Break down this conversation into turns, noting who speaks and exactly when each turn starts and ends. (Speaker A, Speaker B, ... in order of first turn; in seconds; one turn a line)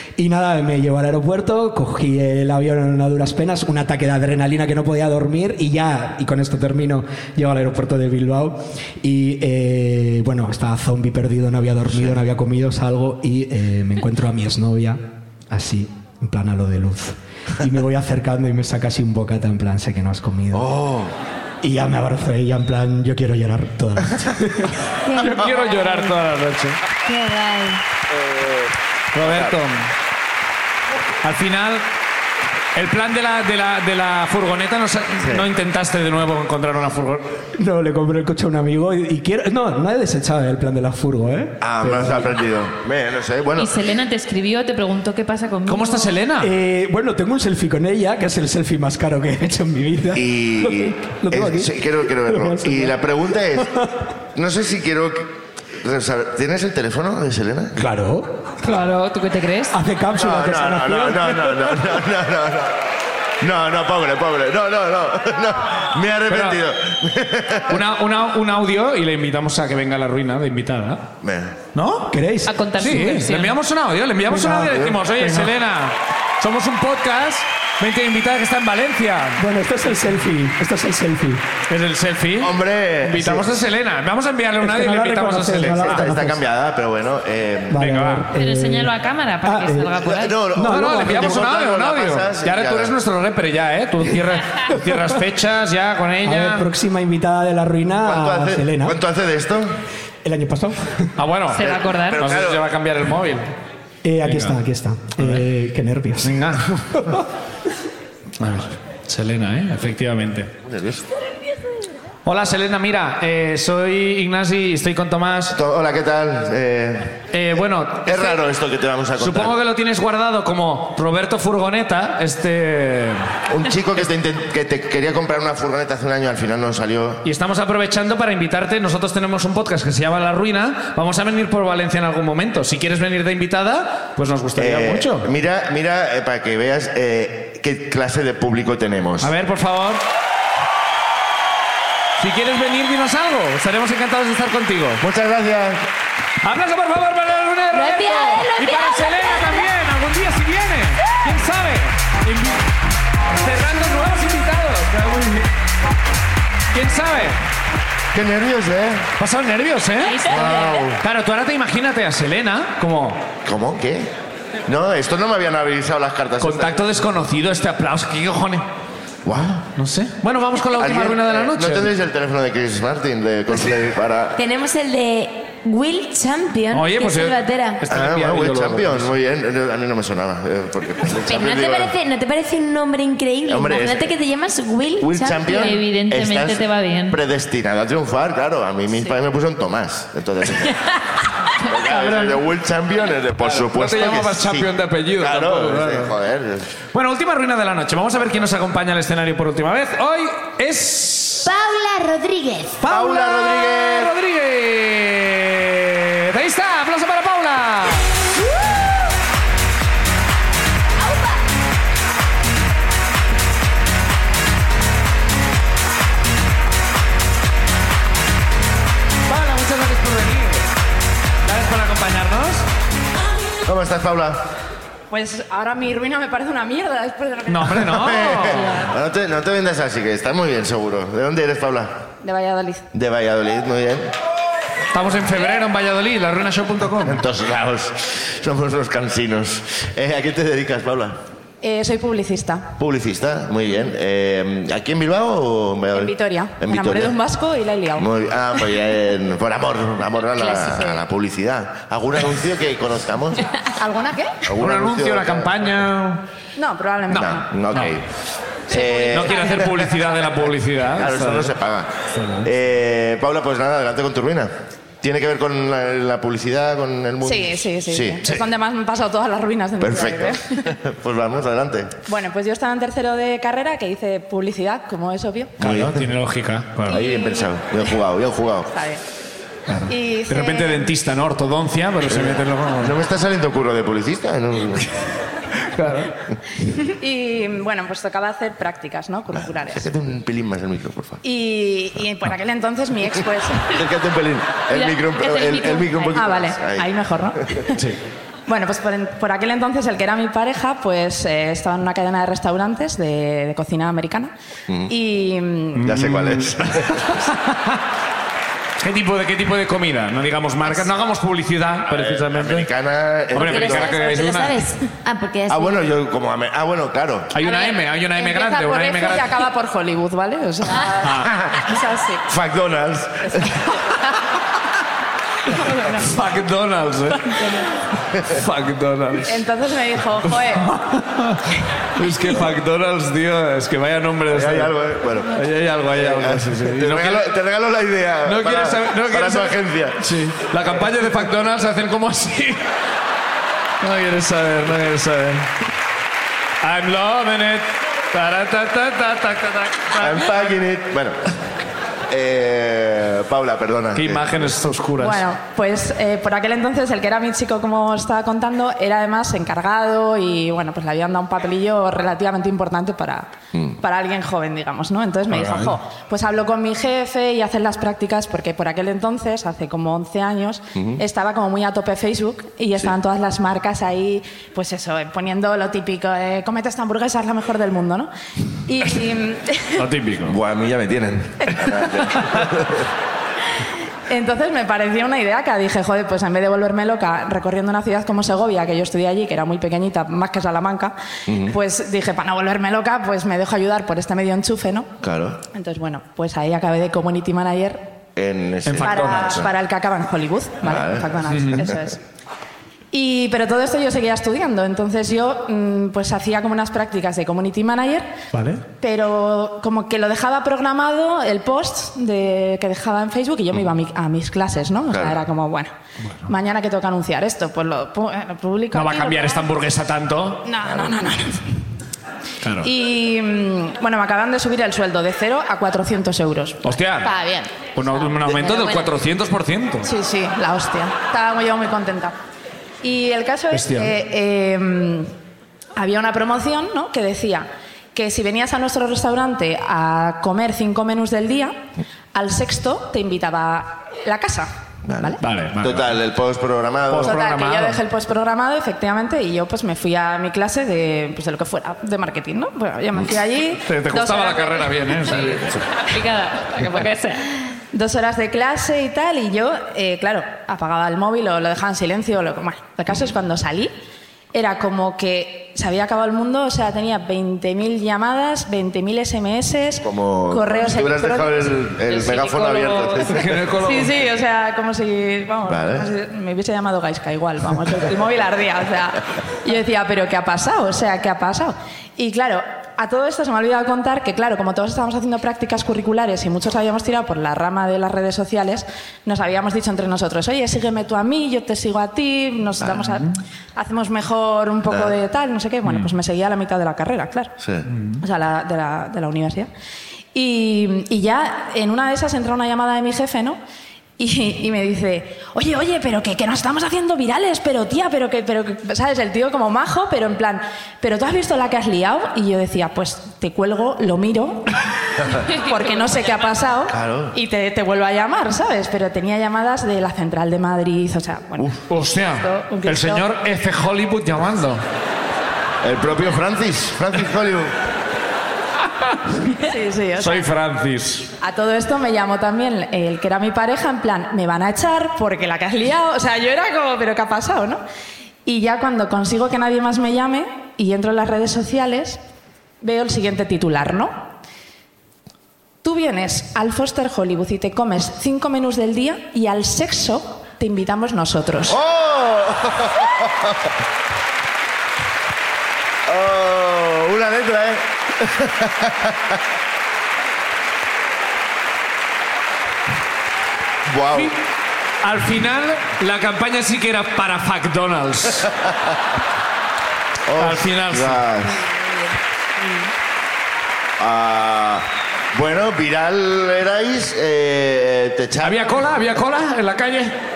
Speaker A: 0.2-20.7
Speaker B: 20.5-21.1
Speaker A: 21.6-24.8
Speaker C: 25.0-26.2
Speaker D: 25.1-26.8
Speaker C: 27.0-27.8
Speaker D: 29.1-29.9
Speaker B: 29.2-29.6
Speaker D: 31.2-31.8
Speaker D: 32.7-37.3
Speaker B: 35.2-35.5
Speaker A: 37.6-42.3
Speaker B: 41.6-43.7
Speaker E: 43.5-46.2
Speaker D: 45.6-46.5
Speaker A: 46.4-54.0
Speaker B: 50.1-53.7
Speaker B: 54.3-57.8
Speaker A: 57.8-58.5
Speaker E: 58.6-59.7
Speaker A: 59.7-62.0
Speaker B: 60.2-62.8
Speaker B: 63.4-67.8
Speaker D: 66.3-66.6
Speaker D: 67.7-71.0
Speaker B: 71.2-71.6
Speaker D: 71.7-72.1
Speaker A: 72.1-72.6
Speaker E: 72.5-73.5
Speaker D: 72.7-79.4
Speaker A: 74.3-75.5
Speaker A: 79.4-81.5
Speaker D: 81.7-82.5
Speaker B: 82.4-83.5
Speaker D: 83.0-86.0
Speaker A: 84.6-86.4
Speaker B: 85.6-87.8
Speaker A: 87.7-91.5
Speaker D: 87.7-88.3
Speaker E: 88.3-90.4
Speaker B: 90.0-92.9
Speaker D: 90.6-96.7
Speaker A: 96.2-99.0
Speaker B: 98.0-99.8
Speaker A: 100.2-101.1
Speaker D: 101.2-103.5
Speaker E: 101.5-102.2
Speaker B: 102.0-102.6
Speaker A: 104.0-106.4
Speaker D: 104.2-104.5
Speaker D: 106.2-107.0
Speaker D: 108.4-110.5
Speaker B: 110.6-111.0
Speaker D: 112.2-115.5
Speaker B: 115.5-117.2
Speaker D: 117.3-118.4
Speaker B: 118.0-119.5
Speaker D: 119.2-123.2
Speaker B: 123.5-127.2
Speaker D: 127.2-135.2
Speaker B: 134.6-139.3
Speaker D: 139.2-140.0
Speaker D: 142.2-145.0
Speaker B: 145.0-145.8
Speaker D: 146.4-152.6
Speaker C: 147.7-149.7
Speaker D: 153.4-155.5
Speaker D: 156.7-157.4
Speaker B: 158.1-159.1
Speaker D: 159.2-160.5
Speaker E: 160.0-160.9
Speaker B: 160.3-161.0
Speaker D: 161.0-163.2
Speaker B: 163.4-164.1
Speaker B: 164.7-166.9
Speaker D: 166.4-168.6
Speaker B: 169.2-169.7
Speaker D: 169.8-171.9
Speaker B: 170.7-174.4
Speaker C: 174.3-177.8
Speaker D: 176.7-179.1
Speaker B: 177.9-181.9
Speaker C: 181.2-185.8
Speaker B: 183.4-184.1
Speaker B: 185.0-190.8
Speaker E: 185.4-187.2
Speaker B: 191.6-196.7
Speaker D: 191.9-192.3
Speaker D: 193.4-196.1
Speaker D: 196.9-201.5
Speaker C: 201.4-202.8
Speaker D: 202.8-208.0
Speaker B: 202.9-204.1
Speaker D: 219.3-220.7
Speaker D: 221.4-222.6
Speaker B: 223.6-224.4
Speaker F: 225.1-227.8
Speaker D: 227.5-228.8
Speaker B: 227.8-232.0
Speaker F: 228.4-228.7
Speaker F: 232.2-232.9
Speaker B: 232.9-234.1
Speaker D: 234.9-237.2
Speaker B: 237.0-241.2
Speaker F: 241.6-242.7
Speaker B: 242.8-247.2
Speaker F: 245.9-248.1
Speaker B: 247.9-253.5
Speaker F: 250.3-251.0
Speaker F: 253.8-254.4
Speaker B: 254.4-255.5
Speaker D: 254.5-256.2
Speaker F: 256.6-257.5
Speaker B: 257.1-258.1
Speaker D: 257.2-257.9
Speaker B: 258.7-260.1
Speaker F: 258.7-259.7
Speaker D: 259.1-261.5
Speaker B: 260.9-268.4
Speaker D: 262.1-262.5
Speaker F: 267.2-270.7
Speaker B: 269.8-271.9
Speaker F: 272.1-275.6
Speaker D: 275.6-277.0
Speaker B: 275.6-276.1
Speaker B: 276.8-278.7
Speaker F: 276.9-277.5
Speaker F: 278.7-279.0
Speaker D: 279.7-282.9
Speaker F: 279.9-280.9
Speaker B: 282.1-284.9
Speaker D: 285.6-286.1
Speaker F: 286.8-289.8
Speaker B: 289.5-291.2
Speaker F: 291.2-293.8
Speaker B: 293.6-296.9
Speaker E: 294.7-296.2
Speaker F: 296.1-297.8
Speaker B: 297.6-297.9
Speaker F: 298.5-304.3
Speaker F: 304.9-305.9
Speaker D: 305.7-307.8
Speaker B: 305.8-307.1
Speaker D: 308.8-312.7
Speaker B: 311.9-314.2
Speaker D: 313.3-314.6
Speaker C: 313.4-315.9
Speaker B: 315.5-317.3
Speaker D: 317.3-319.4
Speaker F: 317.4-322.2
Speaker D: 321.0-321.4
Speaker B: 321.2-321.5
Speaker B: 322.3-323.5
Speaker F: 323.3-323.7
Speaker D: 325.9-327.6
Speaker D: 328.2-329.4
Speaker F: 329.2-330.7
Speaker D: 330.4-334.7
Speaker B: 334.3-335.4
Speaker D: 335.3-337.3
Speaker B: 335.9-340.1
Speaker D: 338.2-342.6
Speaker D: 343.8-345.5
Speaker D: 346.6-350.4
Speaker B: 349.9-351.1
Speaker B: 352.1-354.4
Speaker D: 353.9-355.2
Speaker F: 355.0-378.1
Speaker B: 370.8-371.0
Speaker F: 378.7-379.8
Speaker D: 379.8-380.4
Speaker B: 380.2-382.8
Speaker F: 384.1-394.9
Speaker B: 391.3-391.6
Speaker B: 395.0-395.4
Speaker F: 395.5-397.9
Speaker B: 398.1-399.5
Speaker D: 398.6-399.4
Speaker F: 398.8-402.0
Speaker B: 400.6-401.6
Speaker D: 401.3-401.6
Speaker F: 402.9-408.2
Speaker D: 408.3-408.6
Speaker F: 408.8-415.7
Speaker B: 414.9-415.2
Speaker F: 416.3-419.5
Speaker D: 418.7-420.4
Speaker F: 420.4-421.6
Speaker D: 422.4-422.7
Speaker F: 422.6-427.6
Speaker D: 426.6-427.1
Speaker D: 427.7-429.9
Speaker F: 428.1-428.9
Speaker F: 429.8-432.1
Speaker F: 432.8-435.1
Speaker D: 433.5-433.9
Speaker F: 435.8-441.6
Speaker F: 442.1-445.2
Speaker B: 444.9-447.2
Speaker D: 445.2-445.9
Speaker D: 446.9-447.8
Speaker F: 446.9-454.7
Speaker D: 453.6-455.6
Speaker E: 455.2-457.3
Speaker F: 457.7-463.7
Speaker F: 464.3-471.6
Speaker B: 469.8-473.3
Speaker E: 471.9-473.1
Speaker D: 473.1-473.9
Speaker F: 473.5-497.3
Speaker B: 475.4-475.9
Speaker B: 497.4-497.7
Speaker D: 497.7-498.0
Speaker F: 498.0-499.5
Speaker F: 500.1-503.4
Speaker F: 504.0-523.0
Speaker B: 516.7-517.1
Speaker D: 521.7-524.6
Speaker B: 525.6-527.5
Speaker F: 529.3-530.3
Speaker D: 530.0-531.1
Speaker F: 531.2-537.6
Speaker F: 538.2-542.0
Speaker F: 542.6-544.0
Speaker F: 545.6-551.6
Speaker B: 551.5-553.4
Speaker B: 555.9-559.2
Speaker B: 563.6-564.1
Speaker D: 564.8-568.3
Speaker B: 570.1-571.4
Speaker D: 570.2-571.0
Speaker B: 573.8-578.7
Speaker D: 578.2-579.9